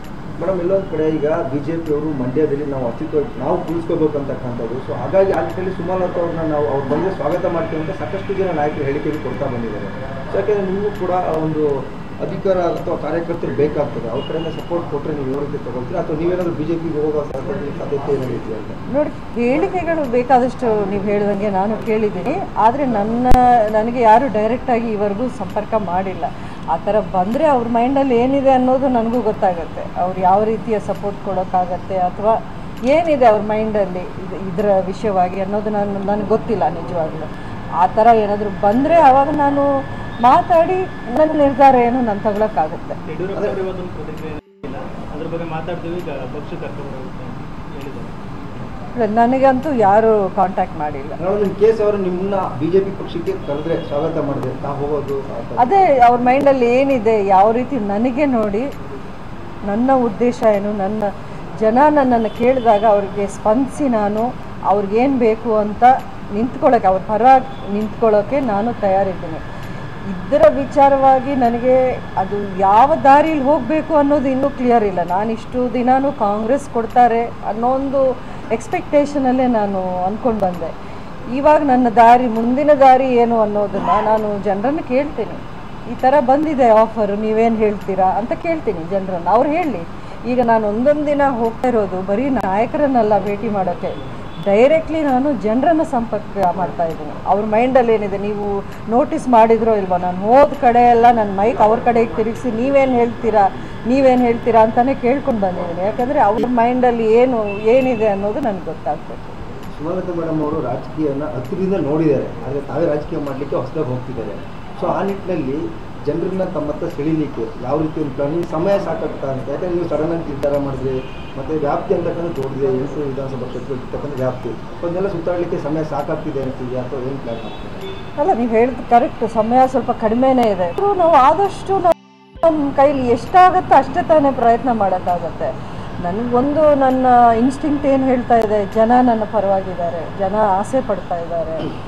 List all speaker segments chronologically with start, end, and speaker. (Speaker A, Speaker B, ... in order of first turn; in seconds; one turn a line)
Speaker A: 0.4-18.8
Speaker B: 18.9-39.7
Speaker B: 40.2-43.0
Speaker C: 43.1-48.1
Speaker B: 49.0-51.2
Speaker A: 51.2-55.9
Speaker B: 55.6-58.7
Speaker B: 59.7-61.1
Speaker B: 61.6-69.4
Speaker B: 70.1-80.7
Speaker B: 81.3-109.4
Speaker A: 109.7-127.9
Speaker B: 128.2-135.5
Speaker B: 136.0-141.7